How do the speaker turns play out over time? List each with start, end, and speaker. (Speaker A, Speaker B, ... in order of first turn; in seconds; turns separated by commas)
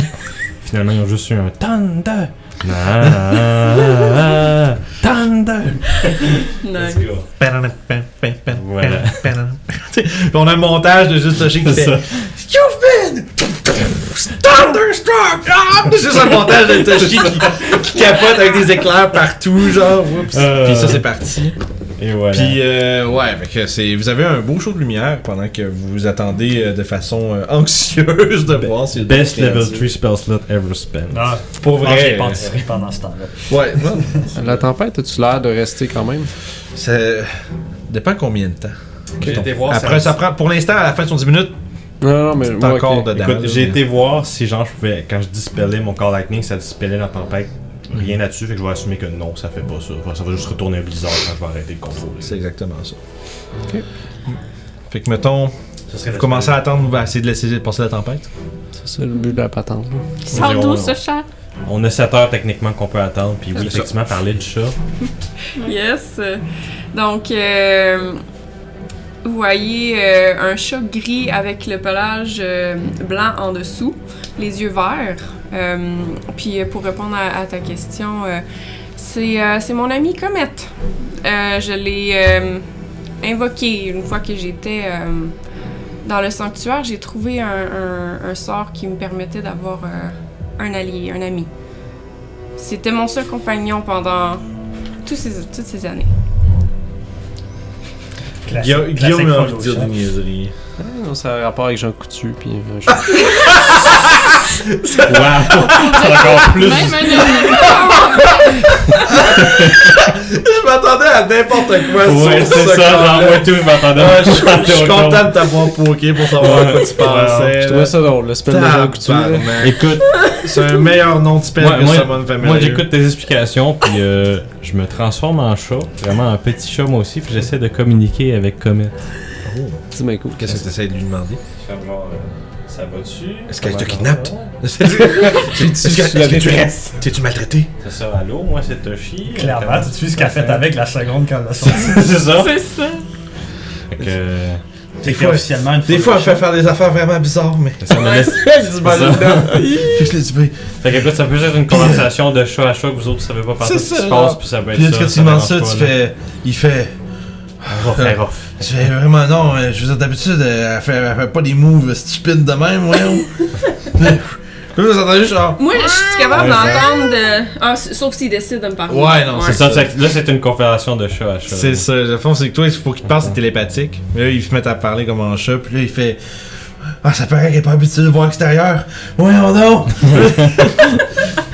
Speaker A: 0.6-7.3, Speaker B: 6.6-7.1, Speaker C: 7.4-21.6, Speaker A: 8.5-9.3, Speaker A: 11.6-12.3, Speaker A: 16.7-18.1, Speaker A: 20.3-21.1, Speaker A: 22.0-22.6, Speaker C: 22.3-29.9, Speaker A: 29.0-32.5, Speaker D: 31.1-34.2, Speaker C: 31.6-32.5, Speaker C: 33.5-34.1, Speaker E: 34.4-36.3, Speaker C: 36.8-37.4, Speaker C: 37.9-41.5, Speaker A: 39.2-40.2, Speaker E: 42.0-43.1, Speaker C: 42.6-43.8, Speaker A: 43.1-52.4, Speaker C: 52.2-53.0, Speaker C: 54.9-55.5, Speaker A: 55.9-56.8, Speaker C: 56.1-58.3, Speaker E: 58.8-60.2, Speaker A: 60.3-61.0, Speaker F: 60.3-61.2, Speaker A: 61.6-64.8, Speaker C: 63.6-63.9, Speaker B: 65.6-68.2, Speaker B: 69.2-78.4, Speaker B: 79.0-82.7, Speaker B: 83.2-85.3, Speaker B: 86.0-91.5, Speaker B: 92.6-94.4, Speaker B: 95.0-96.1, Speaker D: 98.5-100.0, Speaker C: 98.6-100.5, Speaker E: 100.8-103.3, Speaker C: 102.9-106.4, Speaker A: 105.0-107.5, Speaker F: 105.6-108.3, Speaker C: 107.1-122.9, Speaker A: 109.4-109.8, Speaker A: 112.0-115.5, Speaker A: 116.4-117.6, Speaker E: 117.6-119.6, Speaker A: 119.6-120.2, Speaker A: 121.6-128.9, Speaker C: 129.4-131.4, Speaker E: 129.9-130.6, Speaker A: 131.6-134.6, Speaker C: 133.5-137.7, Speaker E: 135.6-136.6, Speaker A: 137.8-140.8, Speaker D: 139.3-142.2, Speaker A: 141.6-142.6, Speaker F: 142.4-143.0, Speaker A: 143.9-144.6, Speaker C: 145.0-150.7, Speaker D: 145.0-146.5, Speaker A: 147.8-150.1, Speaker A: 150.8-155.9, Speaker C: 151.7-152.1, Speaker C: 153.6-156.9, Speaker A: 157.6-158.6, Speaker C: 157.7-166.9, Speaker B: 165.6-169.7, Speaker A: 166.3-167.0, Speaker C: 168.9-169.9, Speaker A: 169.4-171.8, Speaker C: 171.5-181.1